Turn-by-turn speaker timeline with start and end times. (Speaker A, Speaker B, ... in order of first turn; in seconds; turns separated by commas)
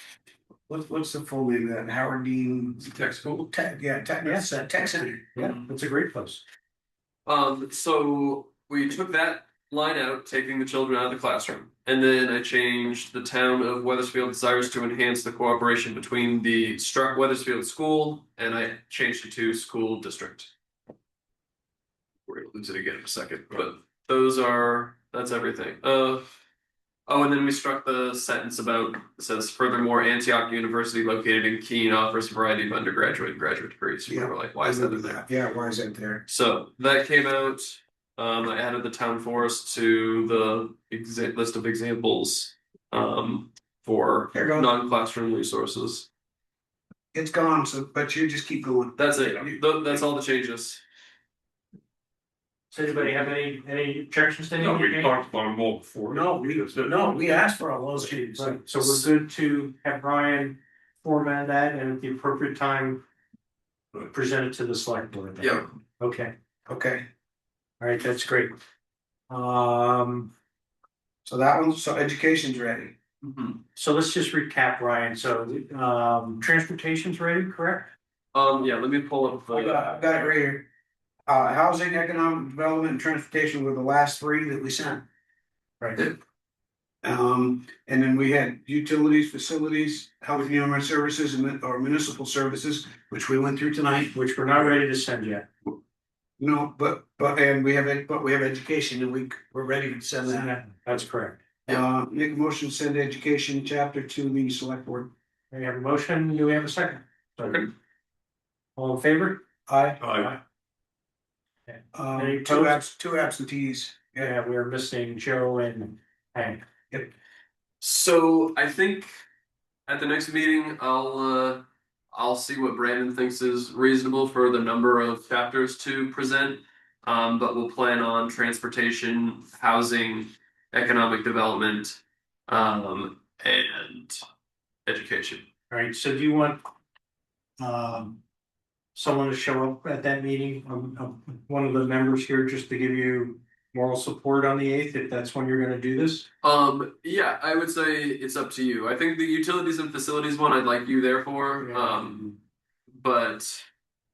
Speaker A: 0.7-5.3, Speaker B: 2.9-3.4, Speaker C: 4.2-6.4, Speaker B: 7.3-20.5, Speaker B: 22.3-26.3, Speaker B: 27.1-35.2, Speaker A: 34.1-36.2, Speaker B: 36.3-46.1, Speaker A: 44.3-44.7, Speaker A: 47.1-49.8, Speaker B: 49.0-50.8, Speaker C: 52.7-55.1, Speaker D: 54.6-57.5, Speaker A: 56.1-58.6, Speaker C: 58.3-63.0, Speaker C: 64.1-66.3, Speaker B: 65.4-65.7, Speaker A: 66.7-67.1, Speaker C: 67.8-68.6, Speaker C: 69.3-70.3, Speaker A: 71.2-73.0, Speaker B: 73.2-73.6, Speaker C: 73.8-77.9, Speaker B: 78.3-79.8, Speaker A: 79.5-80.7, Speaker A: 81.3-85.0, Speaker A: 87.0-94.8, Speaker C: 94.1-95.5, Speaker A: 96.4-100.5, Speaker C: 100.2-101.4, Speaker A: 101.7-105.1, Speaker C: 105.5-107.7, Speaker C: 108.8-110.4, Speaker D: 110.0-110.3, Speaker C: 111.7-112.8, Speaker A: 111.9-114.3, Speaker C: 114.2-116.6, Speaker B: 117.8-119.1, Speaker B: 119.9-134.2, Speaker B: 134.9-135.4, Speaker C: 135.7-136.6, Speaker C: 137.6-138.2, Speaker C: 138.9-146.3, Speaker B: 146.4-152.4, Speaker C: 151.6-152.1, Speaker B: 152.9-153.7